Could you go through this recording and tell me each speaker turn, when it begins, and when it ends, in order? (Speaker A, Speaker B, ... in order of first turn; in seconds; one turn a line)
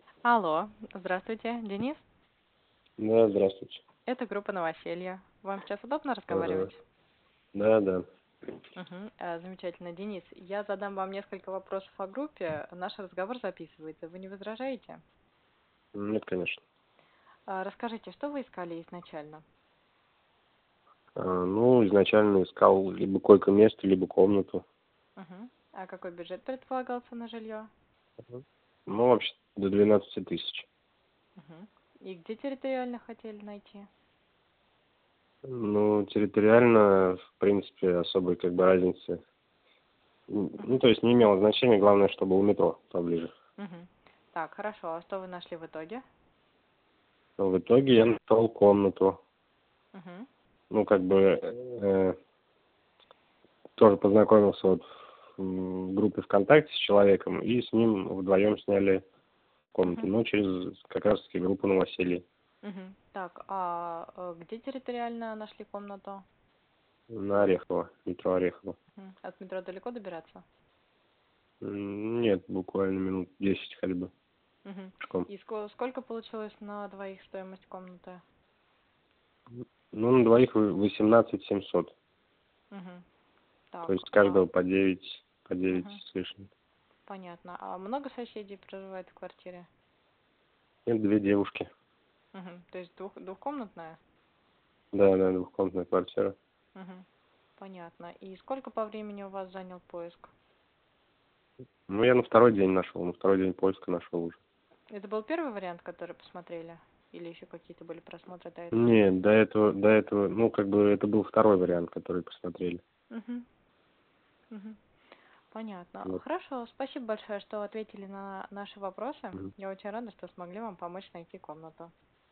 Speaker A: 0.2-2.0
Speaker B: 3.0-3.8
Speaker A: 4.1-6.8
Speaker B: 6.3-6.7
Speaker B: 7.5-8.0
Speaker A: 8.8-15.0
Speaker B: 15.9-16.6
Speaker A: 17.5-19.4
Speaker B: 21.2-24.6
Speaker A: 25.2-27.7
Speaker B: 28.3-30.7
Speaker A: 31.4-33.9
Speaker B: 35.4-39.2
Speaker B: 40.3-43.3
Speaker A: 43.6-46.0
Speaker B: 47.4-49.2
Speaker A: 49.9-50.3
Speaker B: 50.7-52.1
Speaker B: 53.8-54.8
Speaker B: 55.4-59.0
Speaker B: 59.7-62.2
Speaker A: 59.9-60.1
Speaker A: 62.6-66.2
Speaker B: 67.1-68.8
Speaker A: 69.0-70.4
Speaker B: 71.6-74.1
Speaker A: 74.6-78.2
Speaker B: 75.0-75.3
Speaker B: 79.5-81.9
Speaker A: 82.7-83.0
Speaker A: 83.7-84.5
Speaker B: 83.9-86.5
Speaker A: 85.7-86.0
Speaker A: 87.1-89.7
Speaker B: 90.9-91.7
Speaker A: 92.3-94.0
Speaker B: 94.9-96.3
Speaker A: 96.7-97.0
Speaker A: 97.6-100.3
Speaker B: 101.9-104.4
Speaker A: 104.9-109.0
Speaker B: 108.7-112.8
Speaker A: 113.1-113.5
Speaker A: 114.5-114.8
Speaker A: 115.5-121.9